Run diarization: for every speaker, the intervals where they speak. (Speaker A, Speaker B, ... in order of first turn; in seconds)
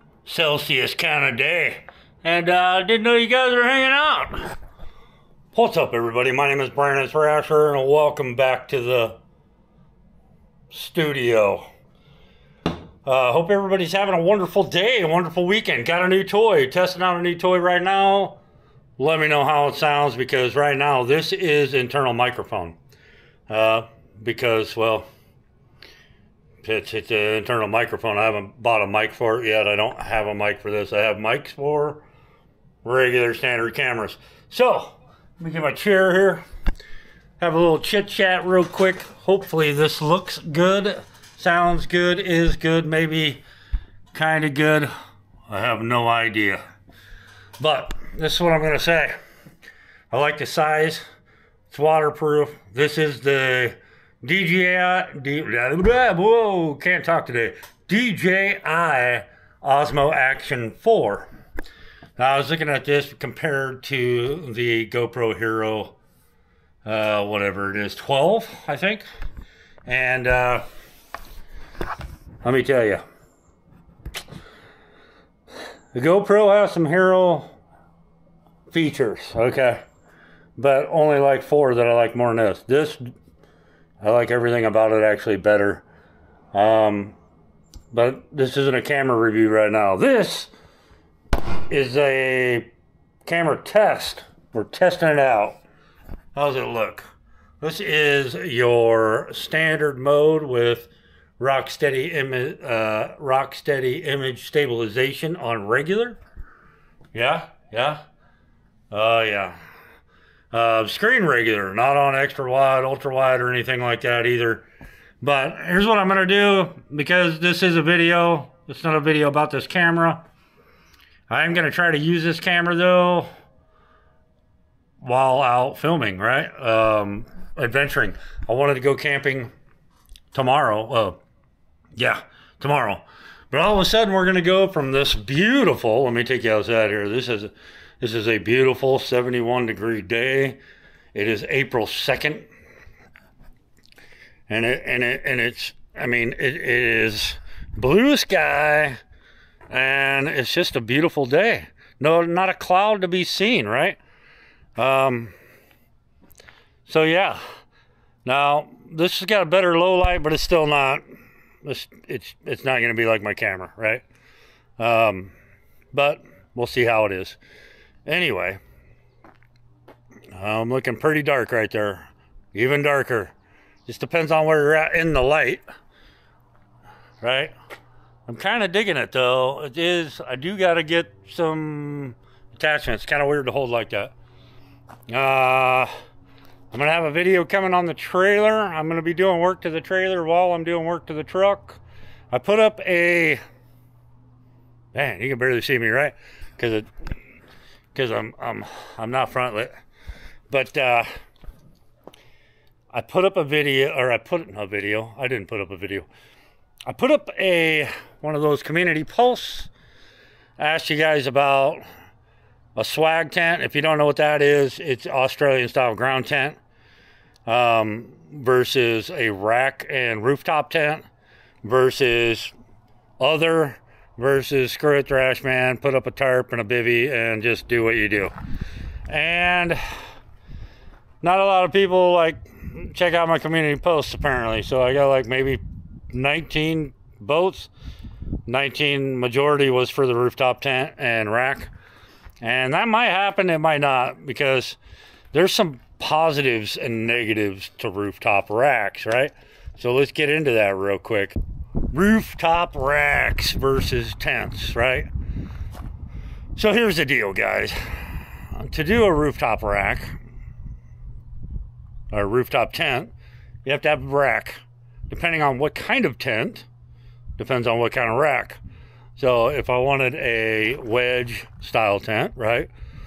Speaker A: 0.2-4.5, 5.5-9.2, 10.7-11.7, 13.1-18.4, 19.0-22.8, 23.5-25.1, 26.6-32.0, 32.8-36.5, 37.4-43.4, 44.1-44.9, 45.5-46.6, 47.6-49.2, 50.1-51.0, 51.7-61.3, 62.2-66.0, 66.8-69.0, 69.9-70.6, 72.4-73.0, 75.9-77.5, 78.7-79.8, 80.6-83.1, 84.0-85.8, 86.5-87.2, 87.9-90.5, 91.7-92.7, 93.3-95.6, 96.3-97.1, 97.6-106.2, 107.1-108.0, 108.9-109.6, 110.5-114.7, 115.2-120.2, 121.3-123.3, 125.0-129.5, 130.3-131.2, 132.0-140.6, 141.1-142.5, 144.5-149.0, 149.7-154.0, 154.8-155.3, 156.9-157.4, 158.2-161.0, 161.6-164.0, 164.8-165.3, 165.9-167.4, 168.1-168.6, 170.3-173.3, 173.9-175.7, 177.2-177.5, 178.3-184.1, 185.1-185.9, 186.7-193.4, 194.9-196.9, 197.9-199.7, 200.5-201.1, 202.9-206.1, 206.9-209.7, 210.6-211.8, 212.8-216.6, 217.5-221.1, 221.6-222.5, 223.2-228.3, 229.1-229.8, 231.2-237.7, 238.5-241.7, 242.4-244.8, 245.3-251.4, 251.9-255.1, 256.6-260.2, 262.1-263.1, 263.6-266.7, 267.4-268.6, 269.2-272.7